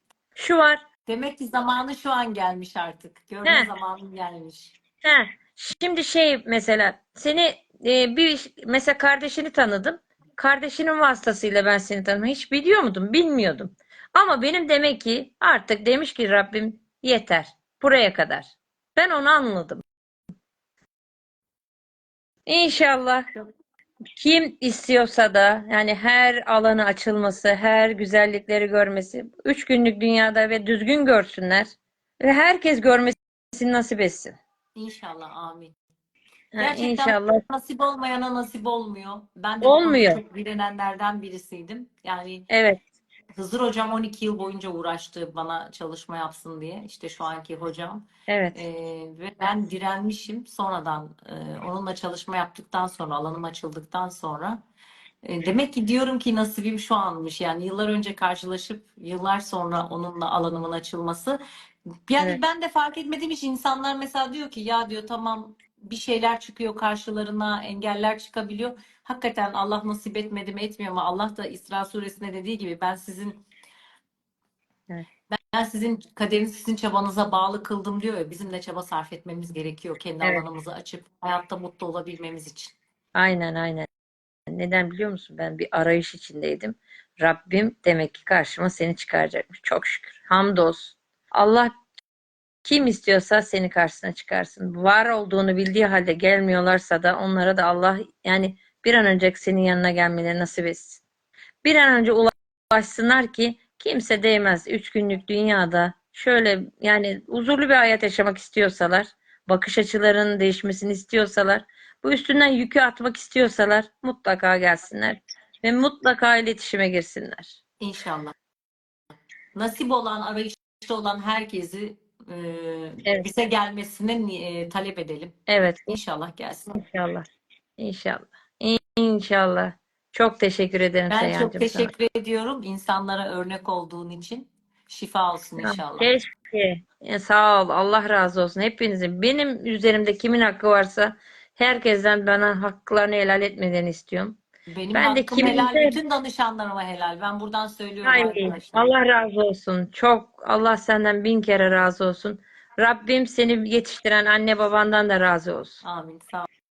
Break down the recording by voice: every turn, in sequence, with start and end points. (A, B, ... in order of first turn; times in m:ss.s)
0:00.4-0:00.8 A
0:01.1-0:04.8 B
0:05.0-0:19.8 A
0:22.5-0:23.3 A
0:24.2-0:31.7 A
0:32.2-0:34.4 A
0:34.8-0:35.7 B
0:36.6-0:37.4 A
0:36.6-0:42.5 B
0:39.6-0:40.2 A
0:42.5-0:42.8 A
0:43.4-0:54.6 B
0:48.3-0:48.6 A
0:55.2-1:01.4 B
1:02.1-1:13.4 B
1:15.3-1:22.8 B
1:23.2-1:23.9 A
1:24.5-1:31.8 A
1:32.6-1:41.0 A
1:41.6-1:57.6 A
1:57.8-1:58.4 B
1:59.6-2:06.8 B
2:05.5-2:06.0 A
2:06.7-2:07.2 A
2:07.8-2:11.9 A
2:11.1-2:16.1 B
2:15.6-2:24.4 A
2:24.7-2:28.9 B
2:24.9-2:26.0 A
2:28.0-2:35.8 A
2:35.8-2:36.5 B